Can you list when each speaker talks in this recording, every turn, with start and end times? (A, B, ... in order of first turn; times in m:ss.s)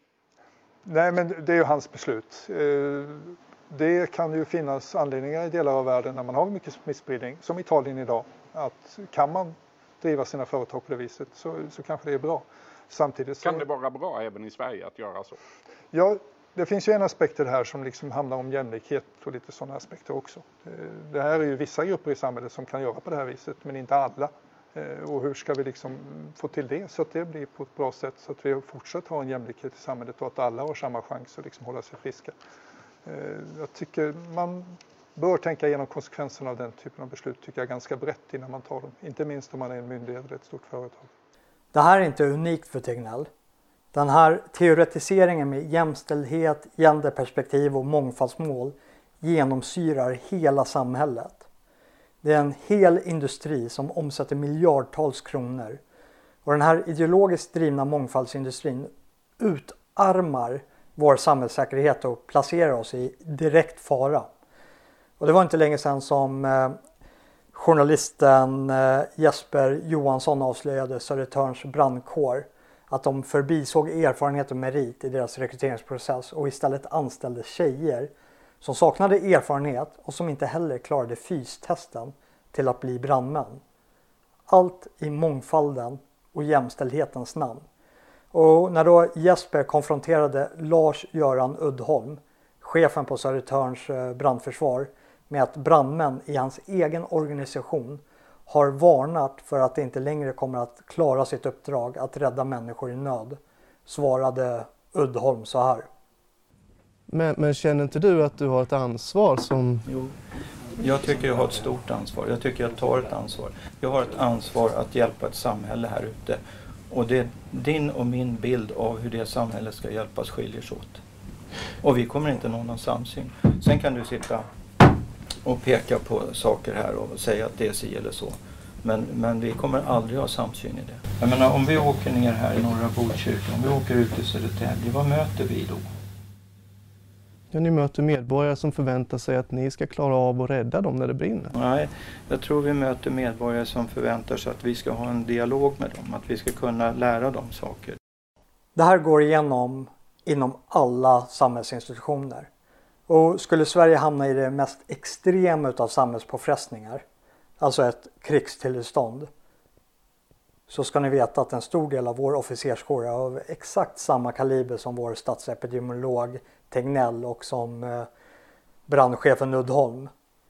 0:00.9-0:13.7 A
0:13.4-0:15.4 B
0:15.9-0:32.3 A
0:33.1-0:41.1 A
0:41.7-0:43.3 C
0:43.9-0:51.5 C
0:52.2-0:55.8 C
0:56.4-1:04.3 C
1:05.2-1:06.8 C
1:07.5-1:18.1 C
1:18.6-1:23.6 C
1:24.5-1:27.6 C
1:28.3-1:45.9 C
1:47.1-1:49.8 D
1:49.9-1:50.1 E
1:50.8-2:01.0 E
2:01.8-2:04.9 E
2:05.4-2:15.8 E
2:17.5-2:21.5 D
2:21.5-2:28.0 E
2:28.8-2:32.5 C
2:33.1-2:37.0 C
2:37.6-2:39.3 C
2:40.7-2:48.1 C
2:48.9-2:50.1 C